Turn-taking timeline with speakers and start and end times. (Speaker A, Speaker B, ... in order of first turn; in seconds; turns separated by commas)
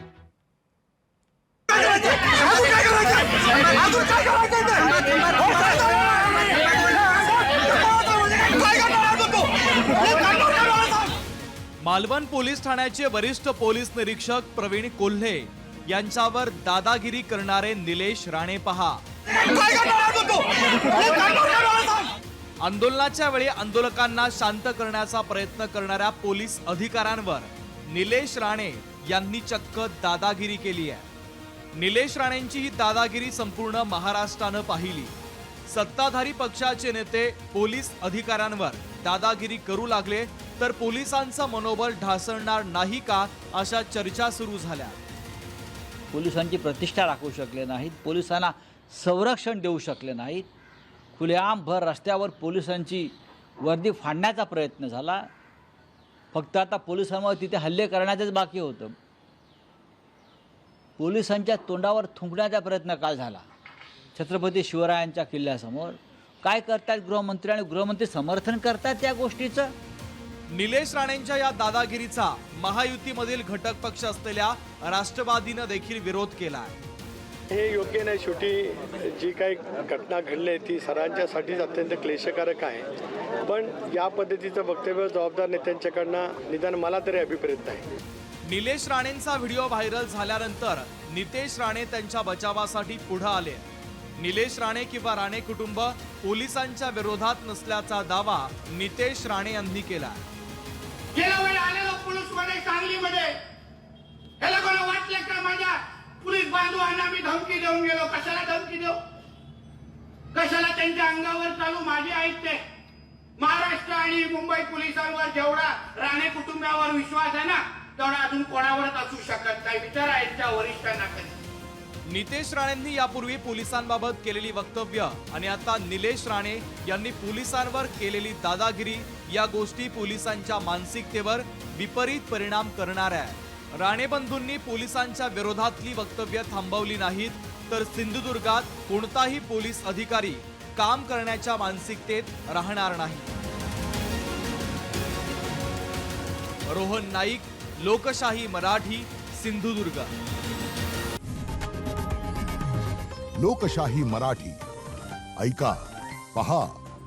Speaker A: 11.8-19.0, Speaker A: 19.6-21.9, Speaker A: 22.6-31.1, Speaker A: 31.7-35.1, Speaker A: 35.7-45.0, Speaker B: 46.1-50.5, Speaker B: 51.1-55.3, Speaker B: 56.3-59.0, Speaker B: 61.0-63.5, Speaker B: 64.1-69.7, Speaker A: 70.5-76.8, Speaker C: 77.5-82.9, Speaker C: 83.4-87.8, Speaker A: 88.5-93.6, Speaker A: 94.2-100.2, Speaker D: 101.1-103.4, Speaker D: 104.4-109.0, Speaker D: 110.3-112.6, Speaker D: 113.4-121.4, Speaker A: 122.1-143.3, Speaker A: 146.7-150.1, Speaker E: 153.4-154.6, Speaker E: 155.4-155.8, Speaker E: 156.3-156.8